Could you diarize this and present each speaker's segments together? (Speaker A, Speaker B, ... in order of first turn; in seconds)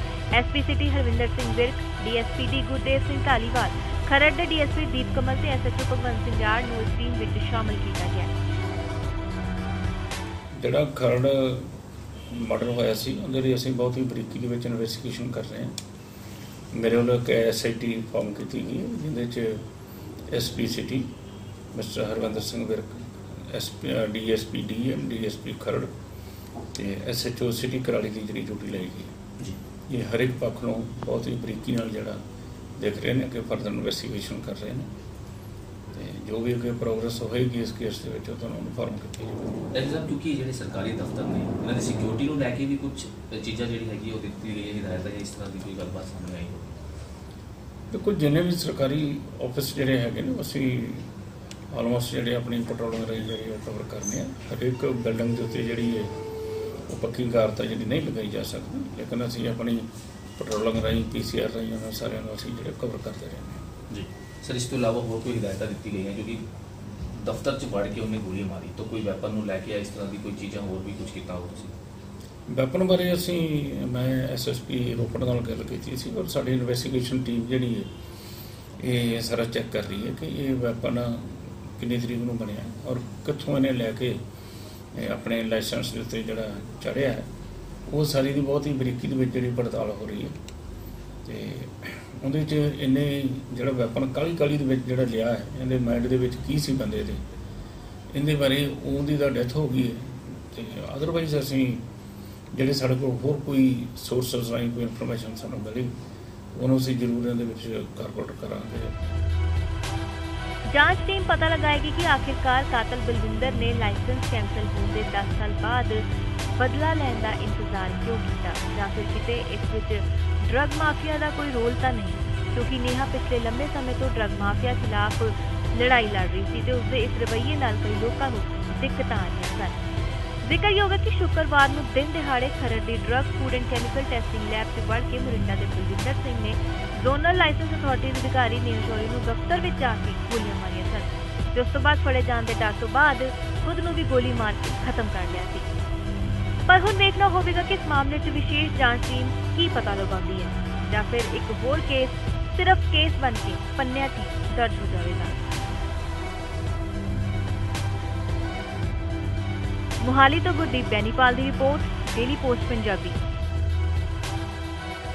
Speaker A: 0.3-8.3, 110.7-116.0, 116.5-129.7, 130.4-145.7, 146.7-155.3, 160.0-163.2
Speaker B: 10.6-11.7, 12.3-15.8, 16.7-19.7, 20.3-21.1, 21.7-25.9, 26.7-29.1, 29.9-32.2, 32.8-34.9, 35.9-39.6, 47.9-51.1, 51.7-56.1, 56.9-63.6, 72.5-77.9, 78.8-84.2, 85.0-87.3, 87.9-90.4, 91.3-97.2, 98.1-101.9, 102.5-105.9, 106.5-109.2
Speaker C: 39.7-46.7, 63.9-66.4, 67.1-71.7